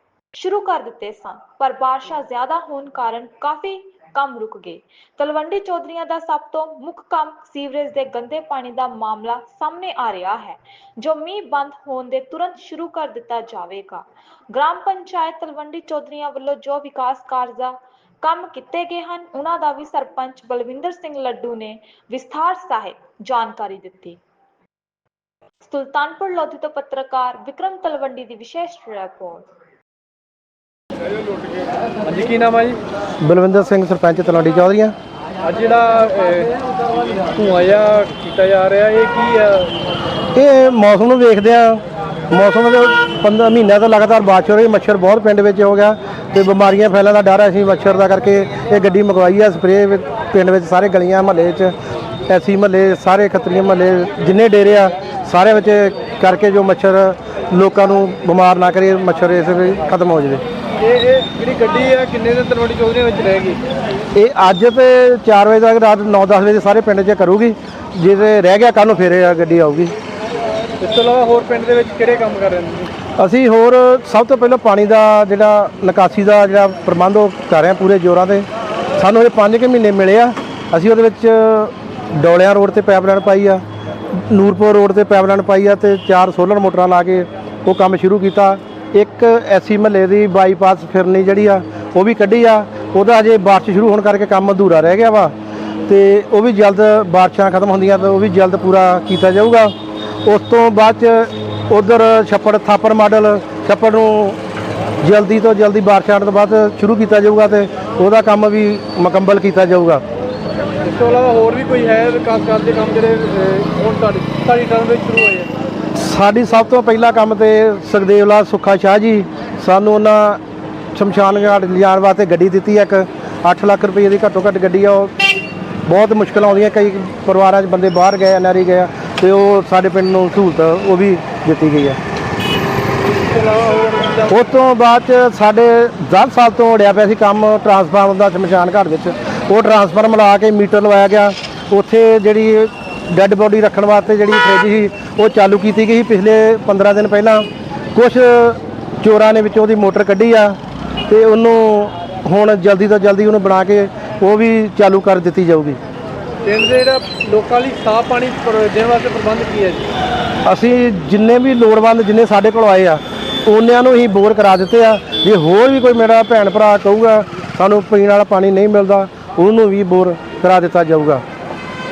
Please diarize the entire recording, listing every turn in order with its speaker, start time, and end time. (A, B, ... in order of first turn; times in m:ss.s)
0:00.3-0:24.2 A
0:25.6-0:29.5 A
0:32.0-0:32.8 B
0:33.2-0:35.0 C
0:35.4-0:36.5 B
0:37.2-0:39.7 B
0:40.3-0:51.8 C
0:52.3-1:00.4 C
1:00.8-1:03.6 B
1:04.2-1:10.0 C
1:10.8-1:12.9 B
1:13.2-1:35.3 C
1:35.9-1:44.4 C
1:45.0-1:50.0 C
1:50.8-1:55.5 B
1:56.0-2:00.4 C
2:00.9-2:05.2 C
2:05.9-2:12.0 C
2:13.2-2:14.4 B
2:14.3-2:30.6 C
2:31.1-2:35.8 C
2:36.4-2:39.9 B
2:40.4-2:51.2 C